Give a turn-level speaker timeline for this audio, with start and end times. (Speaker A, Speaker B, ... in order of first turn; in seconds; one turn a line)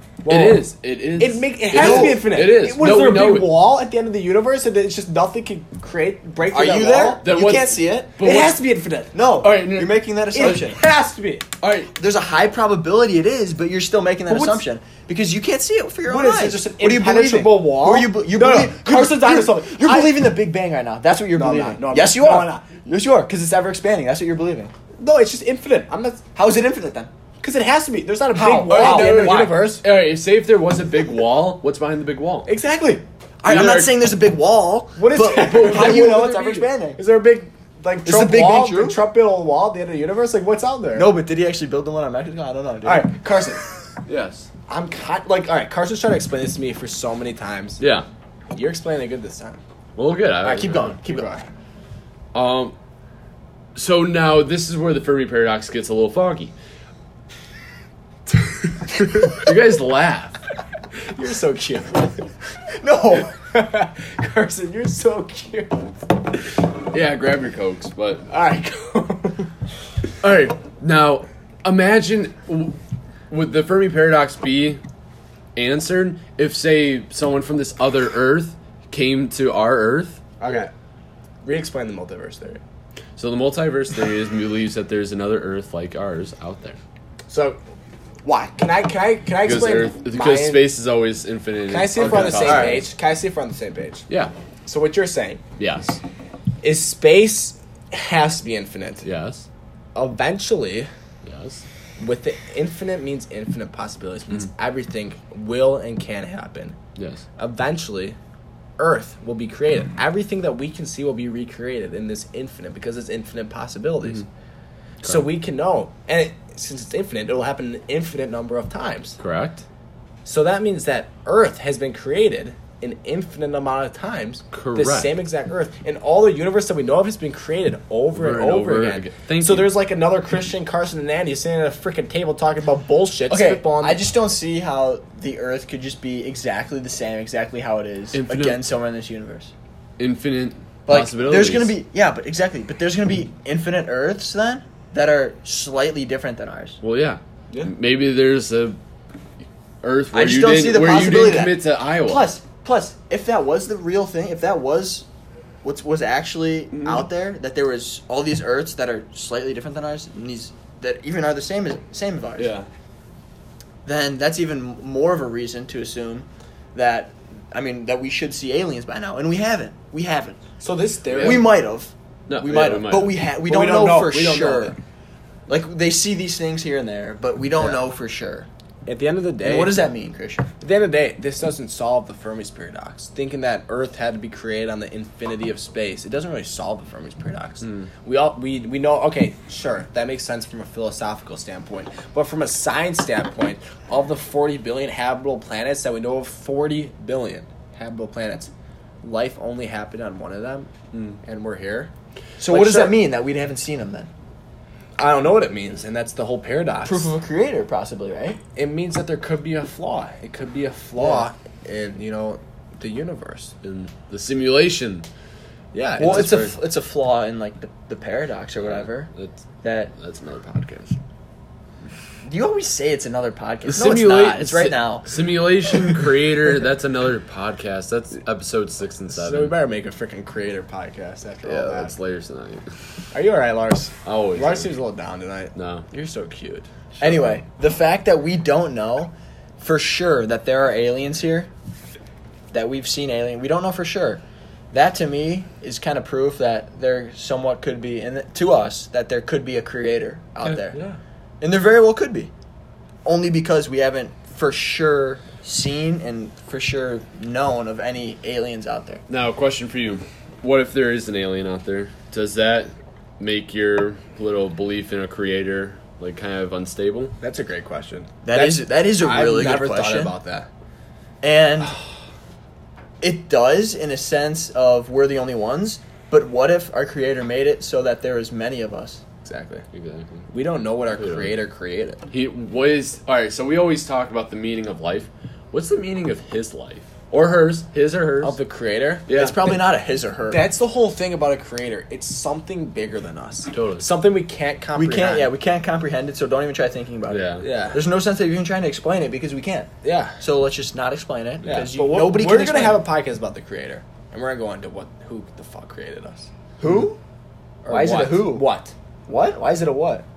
Speaker A: 0.2-7.2
Speaker B: 0.3-3.6
Speaker C: 1.7-2.3
Speaker C: 6.5-8.1
Speaker B: 7.2-8.6
Speaker A: 8.2-9.2
Speaker C: 9.1-10.8
Speaker B: 9.4-10.6
Speaker A: 10.3-11.5
Speaker B: 11.6-11.9
Speaker C: 11.9-24.7
Speaker A: 14.3-14.6
Speaker A: 16.1-20.2
Speaker A: 21.4-22.7
Speaker A: 25.0-26.2
Speaker C: 26.4-27.1
Speaker A: 27.4-29.8
Speaker C: 28.4-29.6
Speaker B: 28.7-32.5
Speaker A: 32.5-33.8
Speaker C: 33.4-37.0
Speaker B: 33.5-33.8
Speaker A: 35.0-41.1
Speaker B: 35.5-36.0
Speaker C: 38.0-39.0
Speaker C: 40.9-43.1
Speaker A: 42.8-43.7
Speaker B: 44.1-44.5
Speaker A: 44.7-47.8
Speaker B: 47.8-48.1
Speaker A: 48.5-49.6
Speaker B: 50.0-51.0
Speaker C: 50.4-51.3
Speaker A: 50.9-51.5
Speaker B: 52.3-52.8
Speaker B: 53.8-56.5
Speaker B: 58.9-60.4
Speaker A: 61.1-62.2
Speaker C: 62.8-63.3
Speaker A: 63.5-65.9
Speaker B: 66.9-68.2
Speaker A: 68.3-69.5
Speaker B: 70.2-72.8
Speaker B: 73.3-74.8
Speaker B: 75.6-80.2
Speaker A: 80.4-80.7
Speaker A: 81.4-82.6
Speaker B: 83.2-86.8
Speaker A: 87.3-87.6
Speaker A: 88.2-90.6
Speaker B: 89.4-92.9
Speaker A: 91.7-94.0
Speaker C: 92.0-92.8
Speaker A: 94.7-95.4
Speaker B: 95.6-96.0
Speaker A: 96.6-99.0
Speaker B: 99.0-99.5
Speaker A: 100.0-100.9
Speaker B: 101.2-101.6
Speaker A: 102.0-106.8
Speaker B: 107.0-107.2
Speaker A: 107.4-108.2
Speaker A: 108.8-114.2
Speaker A: 115.0-119.2
Speaker B: 119.2-119.6
Speaker A: 120.2-134.0
Speaker B: 124.5-125.1
Speaker B: 128.1-129.8
Speaker C: 133.3-139.5
Speaker B: 138.1-138.6
Speaker B: 140.0-141.8
Speaker C: 140.9-146.8
Speaker B: 146.8-148.8
Speaker B: 149.8-152.3
Speaker C: 150.1-155.1
Speaker C: 155.6-162.5
Speaker B: 156.7-157.1
Speaker B: 162.4-162.7
Speaker C: 163.8-170.4
Speaker A: 170.6-171.5
Speaker B: 171.1-171.5
Speaker C: 171.2-174.8
Speaker B: 172.3-173.2
Speaker A: 173.4-174.8
Speaker C: 175.5-178.5
Speaker A: 178.9-179.9
Speaker C: 179.4-180.5
Speaker A: 180.6-198.5
Speaker A: 199.0-200.7
Speaker B: 200.9-201.2
Speaker A: 201.2-201.9
Speaker C: 202.4-204.1
Speaker A: 202.5-203.0
Speaker A: 205.0-207.1
Speaker C: 206.8-208.4
Speaker A: 208.6-213.5
Speaker C: 211.0-211.3
Speaker B: 213.6-215.1
Speaker A: 215.7-216.4
Speaker B: 216.0-216.6
Speaker C: 216.0-219.1
Speaker B: 218.6-220.9
Speaker C: 219.6-219.9
Speaker C: 222.2-225.1
Speaker B: 223.6-229.5
Speaker A: 229.1-231.9
Speaker B: 231.4-232.8
Speaker A: 233.1-236.7
Speaker B: 234.1-234.7
Speaker B: 235.6-235.9
Speaker C: 237.0-241.5
Speaker C: 242.5-250.8
Speaker A: 250.4-251.0
Speaker C: 251.4-252.3
Speaker C: 253.1-259.0
Speaker B: 259.1-267.1
Speaker A: 267.2-270.5
Speaker C: 268.2-270.1
Speaker C: 271.2-271.8
Speaker C: 273.0-279.0
Speaker A: 279.2-279.6
Speaker B: 279.7-280.3
Speaker A: 280.3-282.0
Speaker B: 281.0-281.3
Speaker B: 282.1-288.4
Speaker A: 288.2-289.1
Speaker B: 289.1-289.5
Speaker C: 289.1-290.4
Speaker A: 290.3-295.3
Speaker B: 293.5-293.9
Speaker C: 294.8-302.8
Speaker B: 297.1-297.4
Speaker A: 297.4-297.8
Speaker A: 299.8-300.2
Speaker A: 301.5-306.3
Speaker C: 306.6-307.0
Speaker A: 307.6-308.7
Speaker C: 307.7-308.5
Speaker C: 309.1-309.7
Speaker A: 309.4-310.0